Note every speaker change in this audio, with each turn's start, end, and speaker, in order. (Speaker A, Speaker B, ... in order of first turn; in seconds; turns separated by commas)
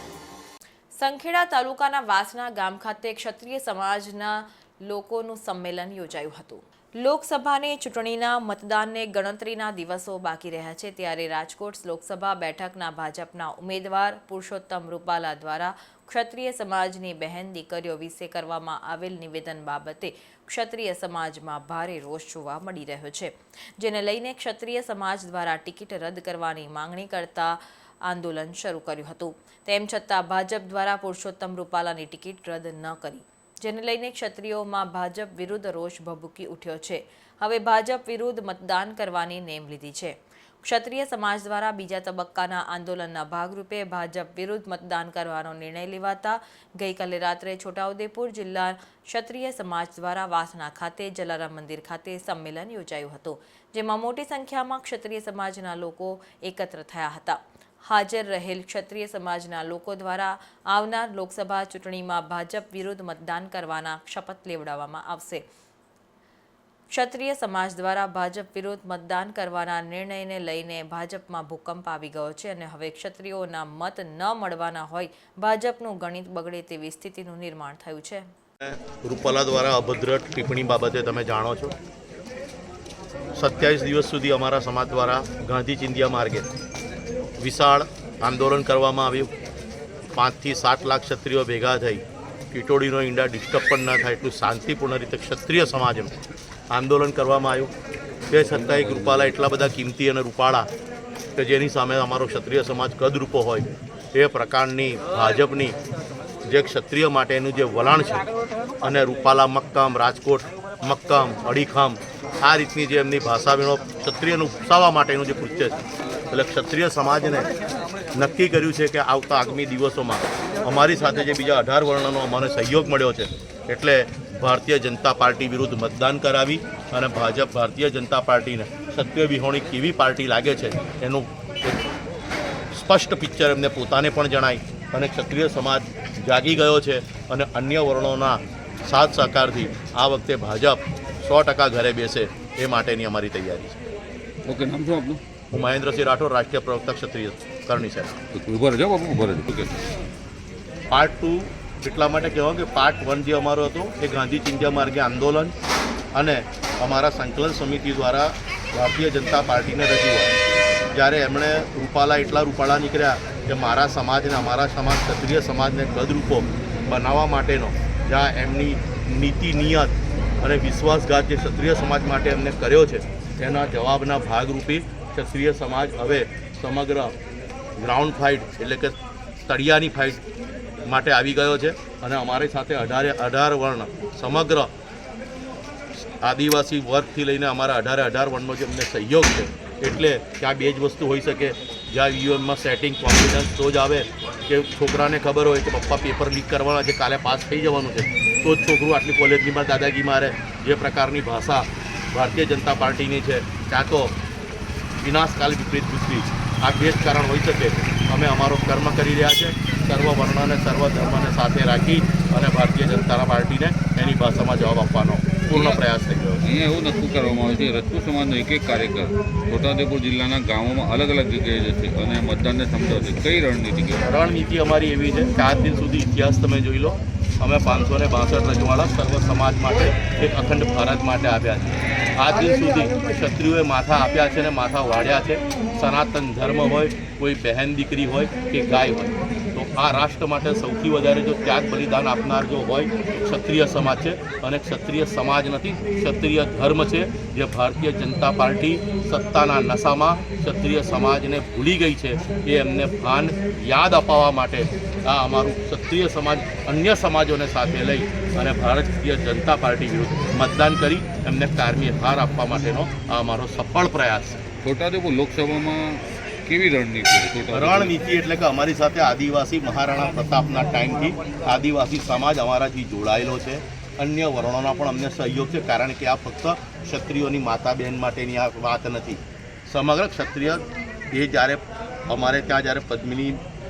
Speaker A: 0.9-65.4, Speaker A: 66.9-78.3, Speaker B: 78.6-81.7, Speaker B: 83.3-86.5, Speaker B: 87.4-89.3, Speaker B: 90.1-96.1, Speaker B: 96.7-97.7, Speaker B: 98.3-100.7, Speaker C: 98.5-99.3, Speaker B: 101.3-105.8, Speaker B: 106.5-108.3, Speaker B: 108.8-117.5, Speaker B: 118.1-131.8, Speaker B: 132.7-143.8, Speaker C: 144.5-145.2, Speaker B: 145.5-148.2, Speaker C: 148.3-149.8, Speaker B: 150.9-155.5, Speaker B: 156.1-160.3, Speaker B: 160.9-177.1, Speaker B: 177.8-180.2, Speaker B: 180.8-184.7, Speaker B: 186.0-204.1, Speaker B: 205.0-216.4, Speaker C: 215.5-215.8, Speaker C: 216.4-224.1, Speaker B: 224.0-264.4, Speaker C: 264.6-267.9, Speaker B: 267.5-283.4